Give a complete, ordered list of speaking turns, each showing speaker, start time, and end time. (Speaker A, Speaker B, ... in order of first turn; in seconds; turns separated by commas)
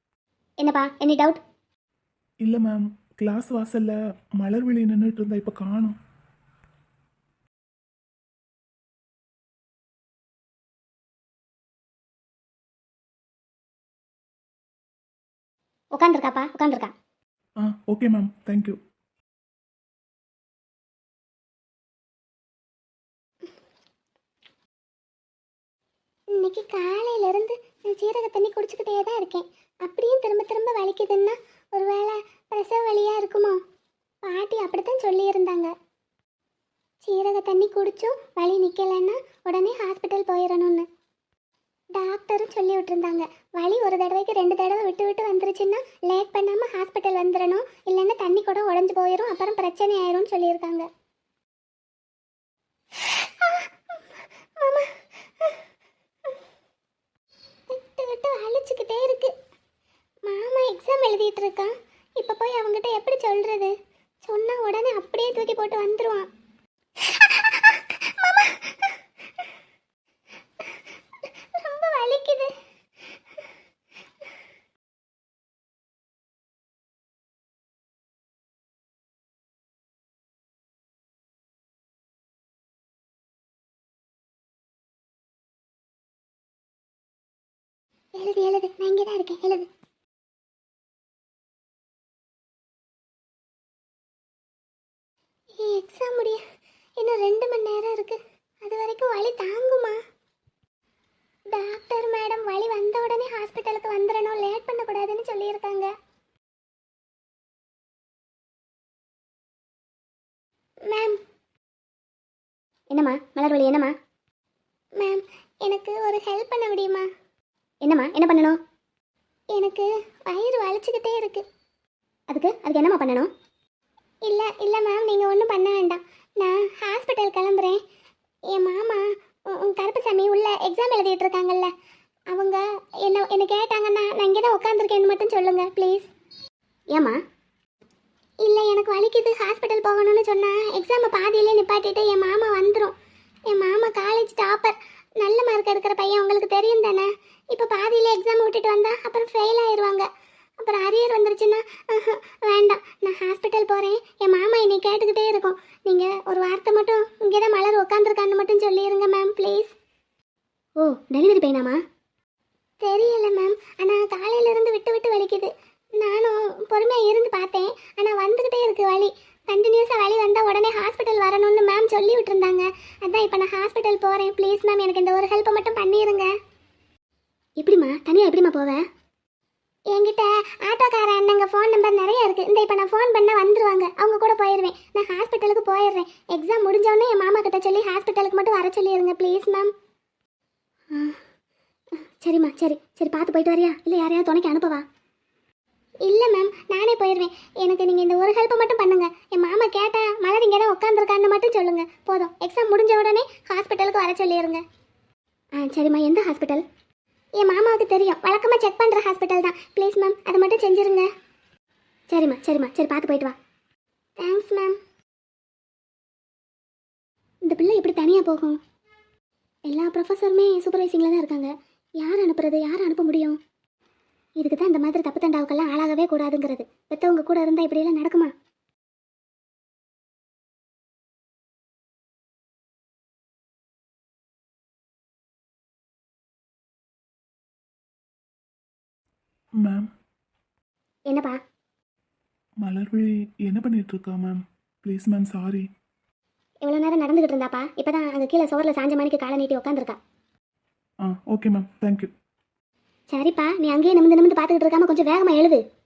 Speaker A: 0.6-1.4, Speaker B: 2.4-6.0, Speaker A: 15.9-16.9, Speaker B: 17.6-18.8, Speaker A: 26.3-33.6, Speaker A: 34.2-35.7, Speaker A: 37.0-40.9, Speaker A: 41.9-50.9, Speaker A: 53.0-53.7, Speaker A: 54.6-55.6, Speaker A: 57.7-59.3, Speaker A: 60.2-63.7, Speaker A: 64.2-66.3, Speaker A: 67.0-68.9, Speaker A: 71.5-72.5, Speaker A: 88.2-89.7, Speaker A: 95.6-96.4, Speaker A: 97.0-100.0, Speaker A: 101.5-105.9, Speaker A: 110.9-111.2, Speaker A: 112.9-113.9, Speaker A: 115.0-117.1, Speaker A: 117.8-118.6, Speaker A: 119.5-121.4, Speaker A: 122.3-123.3, Speaker A: 124.2-127.8, Speaker A: 128.5-131.7, Speaker A: 132.3-136.1, Speaker A: 138.4-142.9, Speaker A: 143.5-150.1, Speaker A: 150.6-159.7, Speaker A: 160.8-161.8, Speaker A: 162.8-176.3, Speaker A: 177.6-178.8, Speaker A: 179.9-189.7, Speaker A: 190.9-191.2, Speaker A: 192.0-194.8, Speaker A: 196.1-204.6, Speaker A: 205.6-206.6, Speaker A: 207.4-211.1, Speaker A: 212.1-213.3, Speaker A: 214.2-214.8, Speaker A: 217.4-218.6, Speaker A: 219.7-223.4, Speaker A: 224.4-228.3, Speaker B: 239.6-239.9, Speaker A: 241.1-241.4, Speaker B: 242.6-245.7, Speaker A: 246.6-250.0, Speaker B: 251.0-252.1, Speaker A: 253.1-255.6